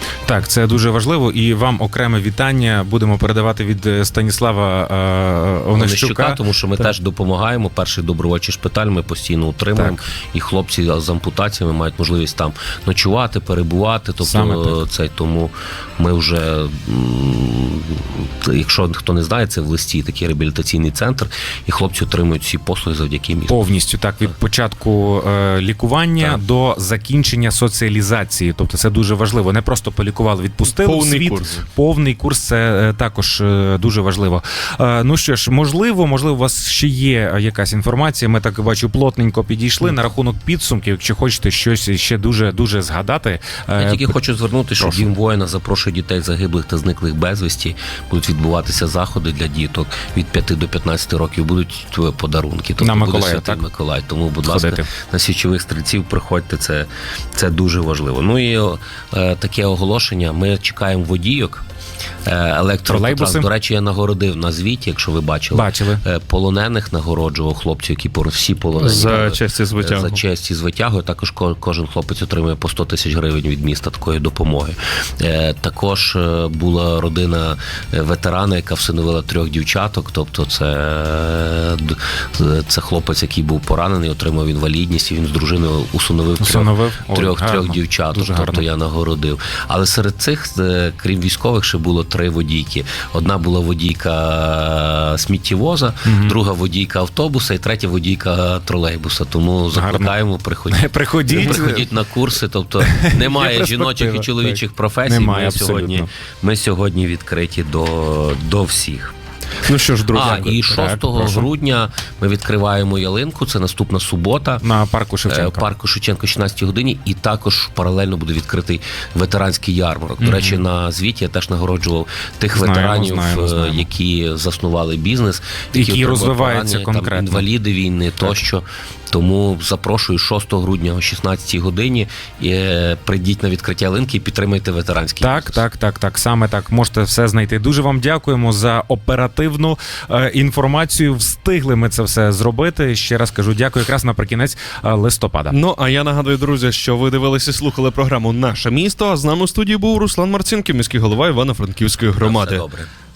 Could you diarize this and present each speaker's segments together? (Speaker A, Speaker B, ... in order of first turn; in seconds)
Speaker A: 0.2-6.9, 14.2-14.8, 23.5-44.1, 44.8-45.1, 52.8-53.6, 54.4-54.9, 62.9-63.5, 65.5-66.0, 86.4-88.7, 96.0-96.4, 99.7-100.2, 100.7-101.9, 102.8-106.1, 109.8-111.5, 114.6-115.7, 120.2-120.6, 122.5-123.9, 125.7-127.5, 135.2-145.6
Speaker B: 5.7-23.6, 43.8-61.6, 62.2-109.1, 110.1-114.7, 115.2-135.6, 152.2-152.9
Speaker C: 30.6-31.6, 68.8-70.2, 109.6-110.5, 145.5-152.6